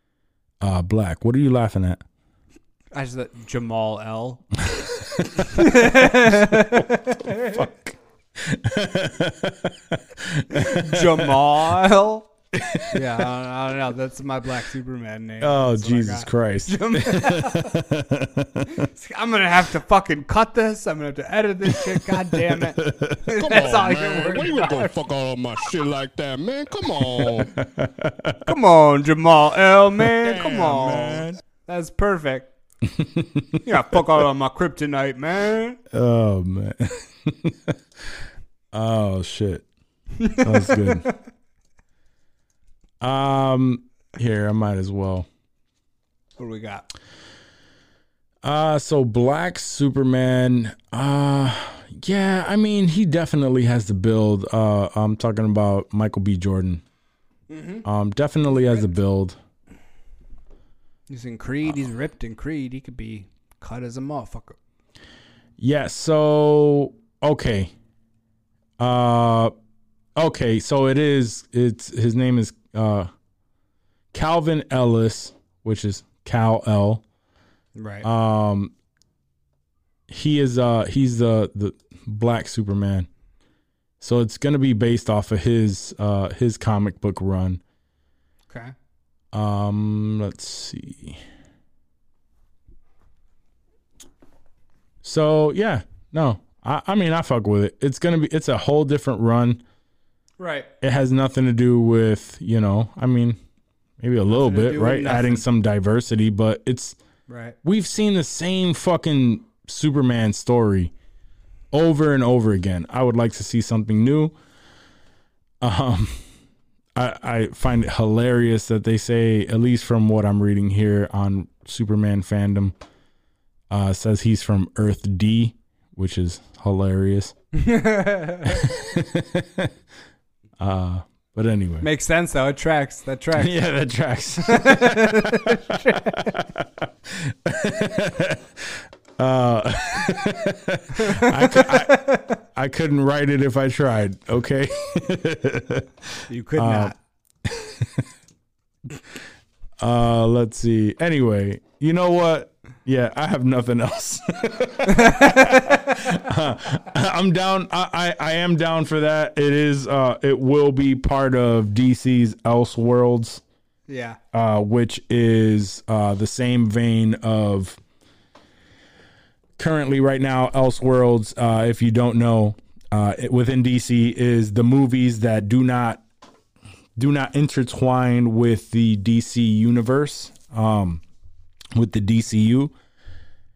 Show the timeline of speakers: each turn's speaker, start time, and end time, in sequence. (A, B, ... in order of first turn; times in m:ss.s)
0:00.6-0:02.0 A
0:02.9-0:04.4 B
0:04.6-0:06.8 A
0:05.4-0:07.7 B
0:07.4-0:11.5 A
0:10.5-0:12.3 B
0:12.5-0:13.0 A
0:12.9-0:17.8 B
0:15.4-0:18.8 A
0:18.7-0:25.0 B
0:21.8-0:23.2 A
0:23.4-0:27.6 C
0:27.0-0:28.5 A
0:28.4-0:32.5 B
0:30.0-0:31.4 A
0:32.9-0:33.6 A
0:33.6-0:35.8 B
0:35.9-0:37.8 A
0:38.7-0:39.7 A
0:40.2-0:41.1 B
0:40.3-0:41.0 A
0:43.0-0:45.3 A
0:46.4-0:46.9 B
0:48.4-0:56.8 A
0:57.5-0:57.8 B
0:57.8-0:59.4 A
1:01.1-1:04.6 B
1:05.6-1:07.7 A
1:08.8-1:09.5 A
1:10.2-1:13.1 A
1:14.1-1:17.0 A
1:17.8-1:18.1 B
1:18.0-1:18.7 A
1:20.1-1:23.1 A
1:24.0-1:27.6 A
1:28.5-1:28.7 B
1:29.3-1:31.2 A
1:35.0-1:39.6 A
1:40.4-1:40.7 B
1:40.8-1:43.4 A
1:44.0-1:47.0 A
1:44.3-1:45.4 B
1:47.3-1:47.6 B
1:47.6-1:50.9 A
1:51.7-1:54.3 A
1:55.6-1:56.3 A
1:57.0-2:02.8 A
2:03.7-2:07.4 A
2:07.5-2:08.6 B
2:08.4-2:09.7 A
2:10.6-2:11.9 A
2:11.8-2:13.5 B
2:13.4-2:28.1 A
2:14.5-2:16.4 B
2:21.0-2:22.4 B
2:26.3-2:27.0 B
2:29.8-2:43.4 A
2:34.9-2:36.0 B
2:43.9-2:44.2 B
2:44.3-2:47.8 A
2:49.6-2:56.0 A
2:57.0-3:01.0 A
3:01.8-3:02.7 A